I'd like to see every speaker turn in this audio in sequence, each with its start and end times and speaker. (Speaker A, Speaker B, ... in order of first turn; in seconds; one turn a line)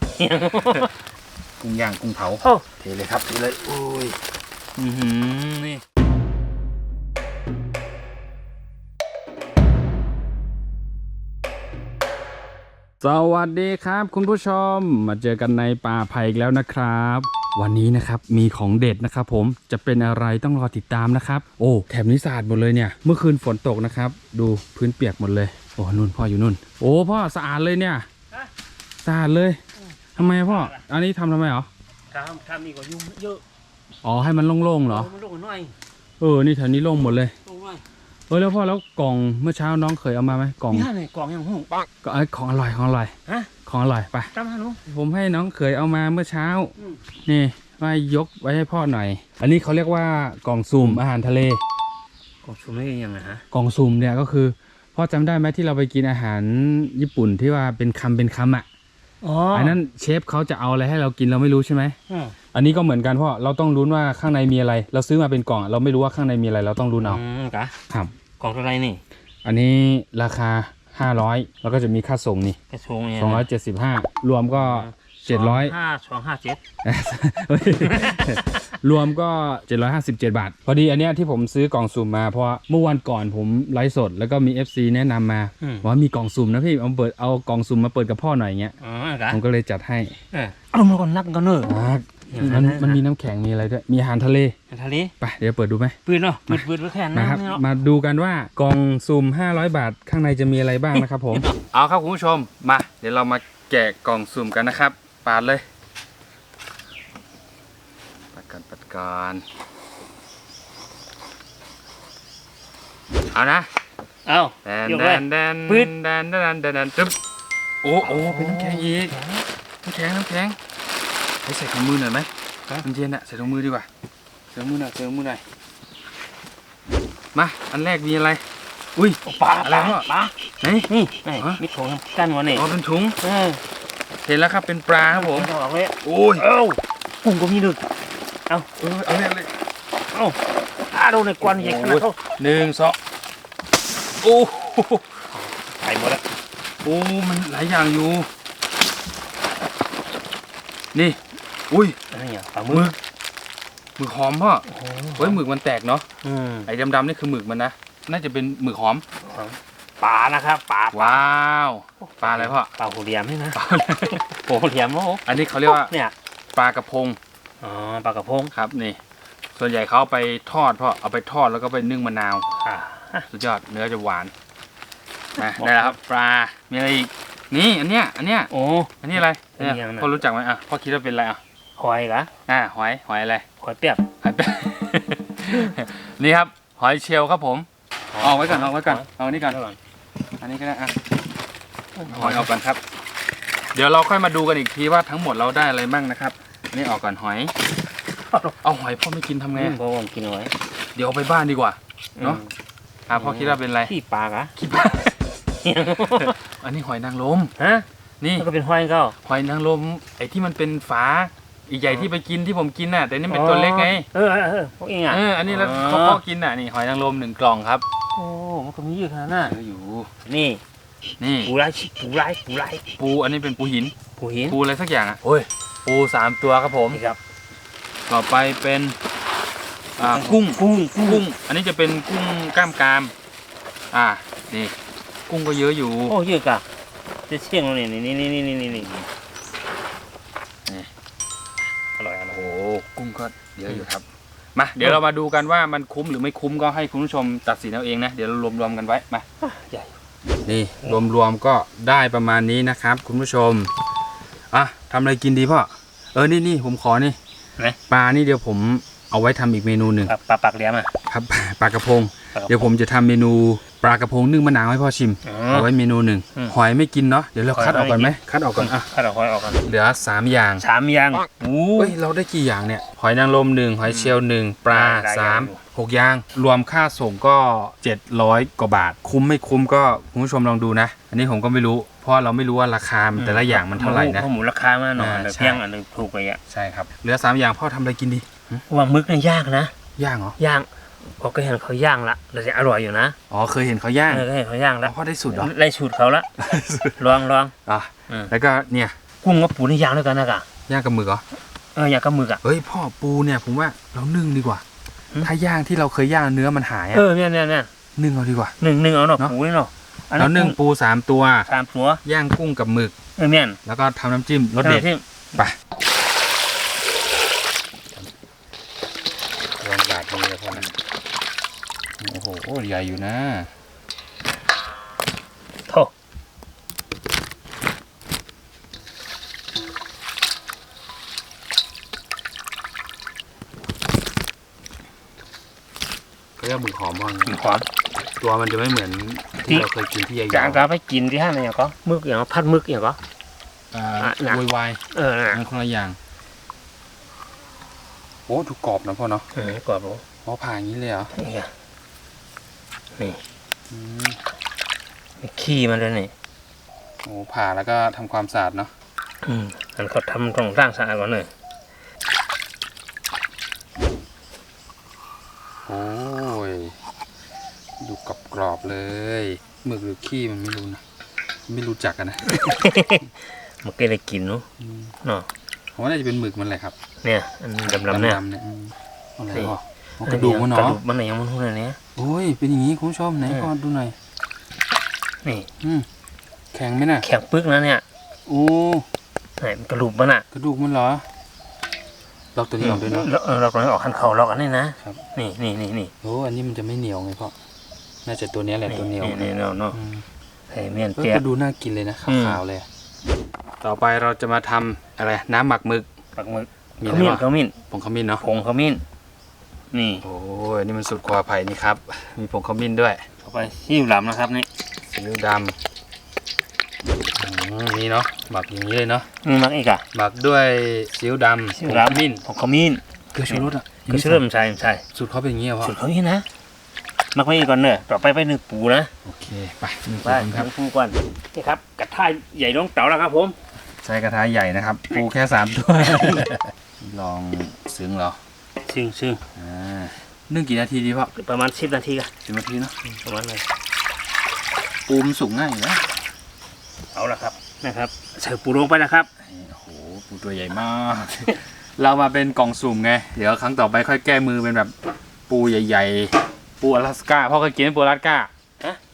Speaker A: 0.2-0.9
Speaker B: 1.6-4.2
Speaker B: 4.8-5.8
Speaker B: 13.0-28.1
Speaker B: 29.0-29.6
Speaker B: 30.2-31.7
Speaker A: 30.2-30.8
Speaker A: 32.1-33.4
Speaker B: 34.0-35.1
Speaker A: 34.9-35.8
Speaker B: 36.2-37.3
Speaker A: 37.4-37.8
Speaker B: 38.3-40.9
Speaker A: 40.7-41.9
Speaker B: 42.0-43.1
Speaker B: 43.7-44.3
Speaker A: 44.3-44.8
Speaker B: 44.9-46.7
Speaker B: 47.3-51.6
Speaker A: 50.8-51.0
Speaker A: 52.4-53.4
Speaker B: 53.5-58.7
Speaker A: 59.2-59.8
Speaker B: 59.5-62.0
Speaker A: 62.1-62.4
Speaker B: 62.5-67.2
Speaker A: 67.0-67.7
Speaker A: 68.4-69.0
Speaker B: 69.4-72.6
Speaker A: 72.7-73.5
Speaker B: 73.2-75.8
Speaker A: 74.5-76.6
Speaker B: 76.8-88.8
Speaker A: 77.7-78.7
Speaker A: 88.8-89.4
Speaker B: 89.3-90.2
Speaker A: 90.3-93.0
Speaker B: 91.7-94.5
Speaker A: 94.7-95.1
Speaker B: 95.2-96.0
Speaker A: 96.1-97.6
Speaker B: 96.5-105.7
Speaker A: 100.9-101.6
Speaker B: 108.3-109.4
Speaker B: 113.3-113.7
Speaker A: 114.3-115.9
Speaker B: 114.6-117.2
Speaker B: 117.8-119.2
Speaker A: 118.0-119.5
Speaker B: 119.8-120.6
Speaker B: 121.4-122.3
Speaker B: 122.8-123.9
Speaker B: 124.5-125.4
Speaker B: 127.3-128.4
Speaker B: 129.0-130.1
Speaker A: 129.2-130.3
Speaker B: 130.6-131.6
Speaker A: 130.9-132.7
Speaker B: 132.5-133.2
Speaker A: 133.2-133.6
Speaker B: 134.2-135.5
Speaker A: 135.1-137.9
Speaker B: 136.0-136.4
Speaker B: 138.8-139.5
Speaker A: 140.1-142.2
Speaker B: 141.4-143.0
Speaker B: 144.1-145.2
Speaker A: 145.3-146.2
Speaker B: 146.8-148.3
Speaker B: 150.9-152.0
Speaker A: 152.1-152.9
Speaker B: 152.7-152.9
Speaker B: 154.0-154.7
Speaker A: 154.7-155.4
Speaker B: 155.2-156.1
Speaker A: 156.2-156.7
Speaker B: 156.7-159.1
Speaker A: 159.2-161.2
Speaker B: 160.9-162.7
Speaker A: 162.1-166.1
Speaker B: 163.6-164.2
Speaker B: 165.2-165.9
Speaker B: 166.5-167.2
Speaker A: 167.6-168.5
Speaker B: 168.5-169.0
Speaker B: 169.6-172.5
Speaker A: 172.6-173.3
Speaker B: 173.3-174.3
Speaker B: 175.4-181.4
Speaker A: 175.4-175.9
Speaker A: 178.5-179.1
Speaker A: 179.6-180.2
Speaker A: 181.8-182.3
Speaker B: 182.5-183.4
Speaker A: 183.6-184.1
Speaker B: 184.2-187.7
Speaker A: 188.1-189.8
Speaker B: 188.2-189.6
Speaker B: 190.4-191.0
Speaker A: 192.0-192.5
Speaker B: 192.1-192.8
Speaker B: 193.7-197.5
Speaker B: 198.6-199.8
Speaker A: 199.6-200.5
Speaker B: 200.9-202.4
Speaker A: 202.2-202.5
Speaker B: 203.1-203.9
Speaker A: 203.1-204.5
Speaker B: 204.6-205.2
Speaker A: 205.6-206.4
Speaker B: 206.1-207.5
Speaker A: 207.6-207.9
Speaker B: 208.2-208.5
Speaker A: 208.4-209.2
Speaker B: 209.2-214.1
Speaker A: 213.3-216.2
Speaker B: 215.1-217.8
Speaker A: 218.2-219.6
Speaker B: 219.4-220.1
Speaker A: 220.2-220.6
Speaker B: 221.2-221.5
Speaker A: 221.4-222.8
Speaker B: 223.0-223.9
Speaker A: 224.2-224.6
Speaker B: 224.5-227.0
Speaker A: 226.9-227.2
Speaker B: 228.1-229.0
Speaker B: 230.0-233.1
Speaker A: 230.0-231.2
Speaker B: 233.9-234.8
Speaker B: 235.3-236.2
Speaker A: 236.1-236.6
Speaker A: 237.3-238.9
Speaker B: 238.7-239.1
Speaker A: 241.8-242.6
Speaker B: 242.3-249.2
Speaker A: 249.4-249.9
Speaker B: 250.5-253.7
Speaker B: 254.5-257.2
Speaker B: 257.9-260.1
Speaker A: 260.1-260.9
Speaker B: 261.1-268.9
Speaker A: 262.3-262.7
Speaker A: 265.2-265.7
Speaker A: 267.5-269.6
Speaker B: 269.6-270.6
Speaker A: 270.6-272.0
Speaker B: 271.8-284.3
Speaker A: 273.9-274.2
Speaker A: 274.7-275.6
Speaker A: 283.1-286.4
Speaker B: 285.0-285.6
Speaker B: 286.5-288.6
Speaker A: 288.7-289.7
Speaker B: 290.0-290.4
Speaker A: 290.4-293.2
Speaker B: 293.3-294.3
Speaker A: 294.1-296.3
Speaker B: 294.8-295.5
Speaker B: 296.4-297.0
Speaker A: 297.0-297.5
Speaker B: 297.6-299.0
Speaker A: 299.2-300.5
Speaker B: 300.7-301.2
Speaker A: 301.8-302.4
Speaker B: 302.4-304.6
Speaker B: 305.2-307.1
Speaker A: 306.9-307.7
Speaker B: 308.0-308.6
Speaker A: 308.6-310.6
Speaker B: 310.2-311.5
Speaker A: 311.5-312.0
Speaker B: 312.0-312.9
Speaker A: 313.2-313.6
Speaker B: 313.6-315.6
Speaker A: 314.6-315.0
Speaker B: 319.6-320.7
Speaker B: 322.0-323.5
Speaker B: 336.4-337.4
Speaker A: 337.3-337.7
Speaker B: 338.2-340.6
Speaker A: 340.3-343.0
Speaker B: 343.7-346.0
Speaker A: 344.0-345.4
Speaker B: 348.3-349.3
Speaker A: 349.4-350.0
Speaker B: 350.2-351.1
Speaker A: 351.1-351.5
Speaker B: 353.7-354.2
Speaker A: 355.2-356.1
Speaker B: 357.1-358.7
Speaker A: 359.2-361.3
Speaker B: 365.7-366.8
Speaker B: 367.8-370.8
Speaker B: 371.5-372.7
Speaker A: 372.3-374.4
Speaker B: 374.6-374.9
Speaker B: 375.8-376.7
Speaker A: 377.0-378.2
Speaker B: 377.6-380.8
Speaker A: 379.3-381.8
Speaker B: 382.0-384.0
Speaker B: 385.6-385.9
Speaker B: 386.5-387.1
Speaker A: 387.0-387.8
Speaker B: 388.3-388.9
Speaker A: 389.4-390.2
Speaker B: 390.3-391.1
Speaker B: 392.4-393.1
Speaker A: 392.6-395.9
Speaker B: 396.0-397.4
Speaker B: 398.1-400.0
Speaker A: 398.7-399.8
Speaker A: 400.5-401.2
Speaker B: 401.0-402.7
Speaker A: 402.1-402.4
Speaker B: 403.6-405.9
Speaker A: 406.2-407.6
Speaker B: 406.8-408.2
Speaker A: 408.2-408.8
Speaker A: 409.7-410.0
Speaker B: 410.0-413.1
Speaker A: 413.2-414.5
Speaker B: 414.9-415.6
Speaker B: 417.1-419.1
Speaker A: 419.2-419.8
Speaker B: 419.9-422.2
Speaker A: 421.5-424.8
Speaker B: 423.1-424.2
Speaker B: 424.9-425.8
Speaker A: 425.6-426.2
Speaker A: 427.1-428.9
Speaker B: 429.0-430.5
Speaker A: 429.9-433.4
Speaker B: 433.8-438.2
Speaker A: 435.8-436.3
Speaker A: 438.7-439.2
Speaker B: 439.4-441.1
Speaker A: 441.1-442.1
Speaker B: 442.2-442.8
Speaker A: 442.9-443.5
Speaker B: 444.9-445.9
Speaker A: 446.9-449.1
Speaker B: 449.2-454.7
Speaker B: 455.3-458.3